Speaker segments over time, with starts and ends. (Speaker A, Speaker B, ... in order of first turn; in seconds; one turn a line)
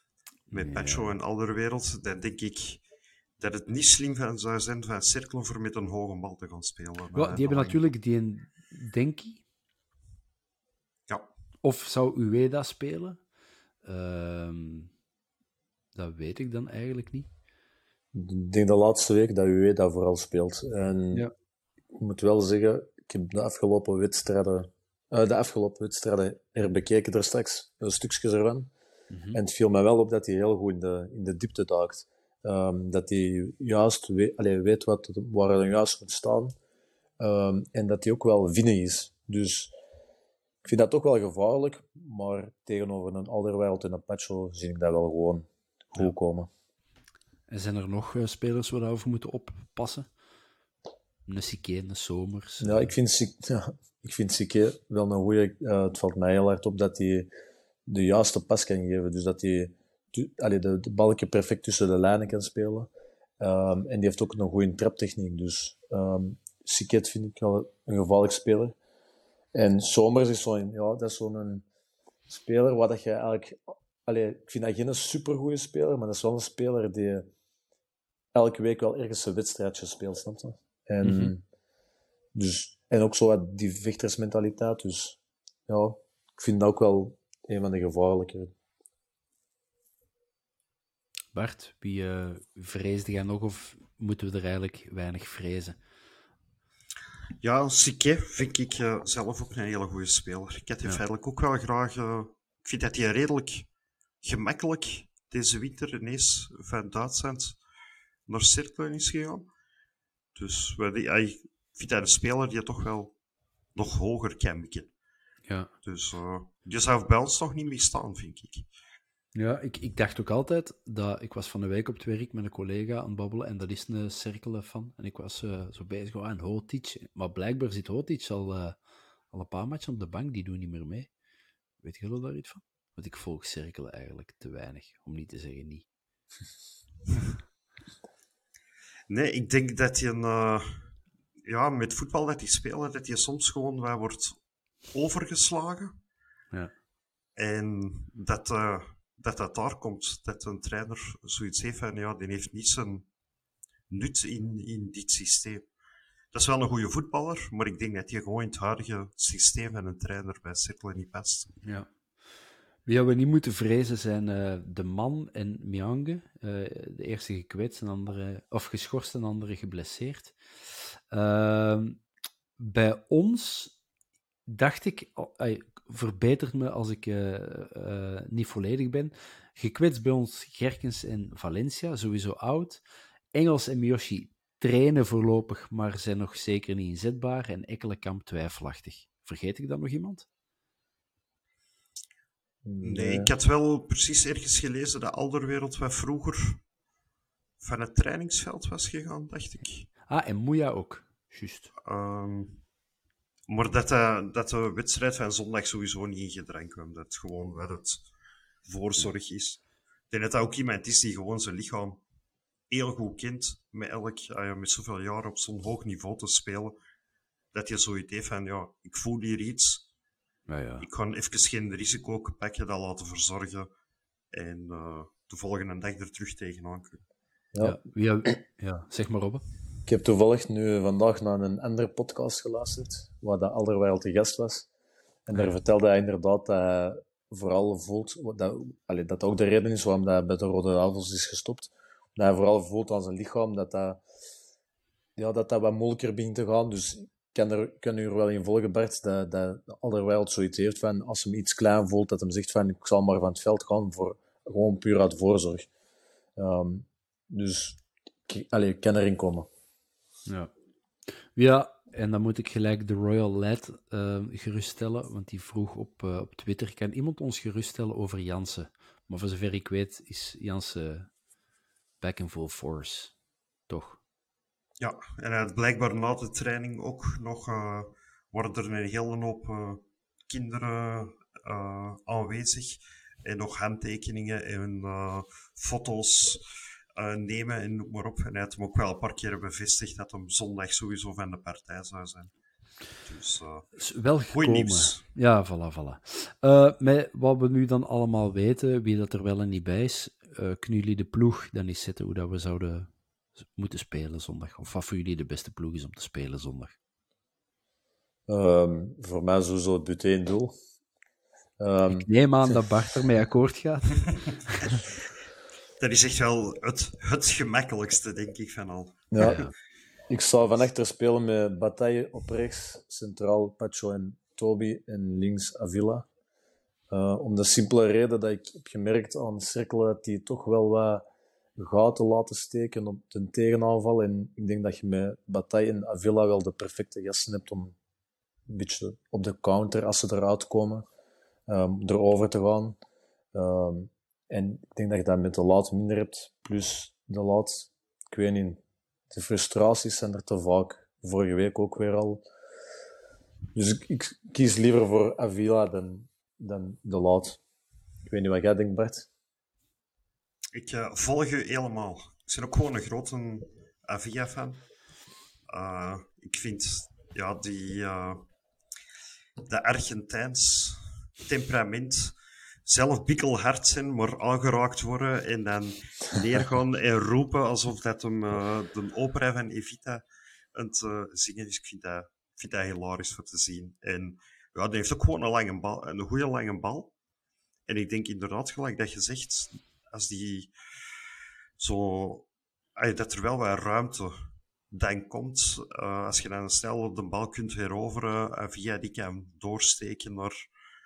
Speaker A: 0.5-1.1
Speaker B: 0.5-2.8
Speaker B: 3.4-7.8
Speaker A: 7.2-9.4
Speaker A: 11.6-13.2
Speaker A: 13.8-14.9
Speaker A: 15.9-17.3
Speaker C: 18.1-21.3
Speaker C: 21.9-28.7
Speaker A: 29.1-29.4
Speaker C: 29.3-36.5
Speaker C: 37.2-39.8
Speaker C: 40.6-46.5
Speaker A: 47.5-50.1
Speaker A: 51.3-52.9
Speaker C: 52.6-57.3
Speaker C: 57.9-68.8
Speaker C: 69.5-71.7
Speaker C: 72.3-77.3
Speaker C: 78.3-81.4
Speaker A: 81.0-81.3
Speaker C: 82.3-88.5
Speaker A: 91.3-95.8
Speaker B: 97.4-103.7
Speaker B: 104.2-107.6
Speaker B: 108.3-109.5
Speaker B: 110.4-113.1
Speaker B: 113.8-114.9
Speaker B: 115.8-118.7
Speaker A: 119.3-128.8
Speaker A: 129.3-131.1
Speaker A: 131.8-135.8
Speaker B: 139.1-144.4
Speaker B: 144.9-145.9
Speaker B: 147.4-153.1
Speaker B: 153.9-155.7
Speaker B: 156.3-161.5
Speaker A: 162.9-172.0
Speaker A: 172.6-173.8
Speaker A: 174.5-182.8
Speaker A: 183.3-190.3
Speaker C: 192.7-193.3
Speaker B: 192.8-196.6
Speaker B: 197.6-199.9
Speaker A: 200.1-201.7
Speaker B: 201.8-202.6
Speaker B: 203.5-208.1
Speaker B: 208.7-212.0
Speaker B: 212.7-216.8
Speaker B: 217.5-219.9
Speaker A: 220.5-220.9
Speaker B: 220.8-223.7
Speaker B: 224.3-227.0
Speaker A: 227.6-229.4
Speaker C: 229.9-234.7
Speaker C: 235.3-244.0
Speaker C: 245.2-255.7
Speaker C: 256.4-259.5
Speaker A: 260.3-260.5
Speaker A: 261.1-271.1
Speaker A: 272.0-273.1
Speaker A: 273.7-274.0
Speaker B: 274.8-286.4
Speaker B: 287.0-292.3
Speaker B: 293.0-295.0
Speaker A: 293.8-306.8
Speaker C: 308.3-310.5
Speaker C: 311.6-312.1
Speaker A: 311.9-314.6
Speaker B: 315.8-319.2
Speaker C: 319.1-319.4
Speaker A: 319.2-319.5
Speaker C: 320.1-326.1
Speaker C: 326.9-331.0
Speaker C: 331.6-337.8
Speaker C: 338.5-340.9
Speaker C: 341.5-342.8
Speaker C: 343.3-348.6
Speaker C: 349.1-352.2
Speaker C: 353.6-357.4
Speaker C: 358.1-359.1
Speaker B: 360.5-364.6
Speaker B: 365.5-368.2
Speaker B: 369.4-372.1
Speaker B: 372.6-380.0
Speaker B: 380.6-386.9
Speaker B: 387.7-390.5
Speaker B: 391.6-400.4